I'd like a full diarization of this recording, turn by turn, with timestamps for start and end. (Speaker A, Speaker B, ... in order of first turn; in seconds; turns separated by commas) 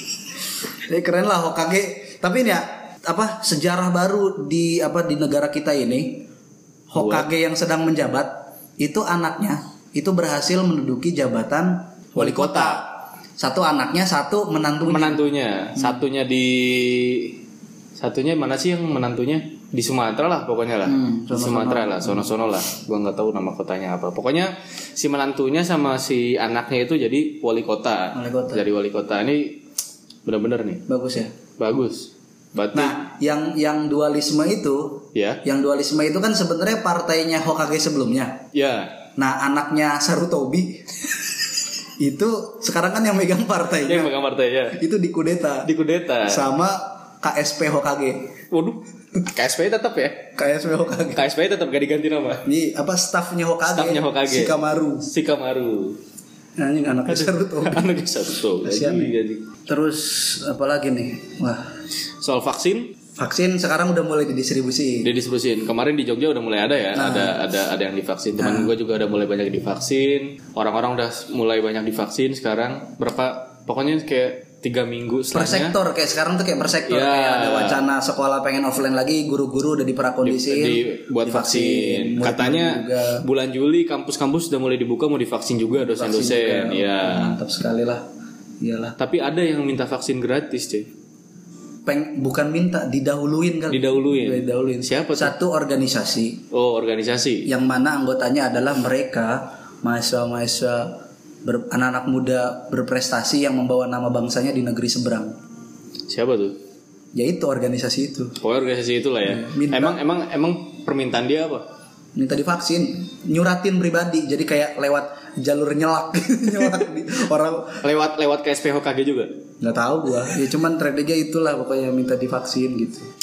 Speaker A: 0.9-6.2, Speaker B: 6.9-7.3, Speaker A: 6.9-15.2, Speaker B: 12.2-12.8, Speaker B: 14.9-17.4, Speaker B: 18.0-29.6, Speaker A: 20.9-22.3, Speaker A: 28.1-28.6, Speaker B: 30.3-30.8, Speaker A: 30.9-31.3, Speaker B: 31.6-33.0, Speaker A: 32.7-38.5, Speaker B: 35.1-35.4, Speaker B: 38.5-39.0, Speaker A: 39.2-40.9, Speaker A: 42.0-44.2, Speaker B: 43.9-44.8, Speaker A: 44.7-45.7, Speaker B: 45.6-46.4, Speaker A: 46.2-48.3, Speaker B: 48.5-50.3, Speaker A: 50.4-51.2, Speaker B: 51.1-52.5, Speaker A: 52.5-55.1, Speaker B: 53.7-56.0, Speaker A: 56.6-57.9, Speaker B: 57.1-59.5, Speaker A: 58.6-59.1, Speaker A: 59.7-61.7, Speaker B: 62.2-63.0, Speaker A: 63.2-65.1, Speaker B: 65.0-75.8, Speaker A: 67.0-67.4, Speaker A: 68.4-68.7, Speaker A: 75.3-83.2, Speaker B: 76.9-77.8, Speaker B: 80.2-87.4, Speaker A: 85.8-88.1, Speaker A: 88.6-89.0, Speaker B: 89.0-90.9, Speaker A: 91.9-96.4, Speaker B: 93.7-95.3, Speaker B: 96.5-97.5, Speaker A: 97.5-105.3, Speaker B: 106.1-106.6, Speaker A: 107.2-108.4, Speaker B: 108.4-111.7, Speaker A: 109.2-110.0, Speaker A: 112.2-117.8, Speaker B: 117.8-119.3, Speaker A: 119.6-123.1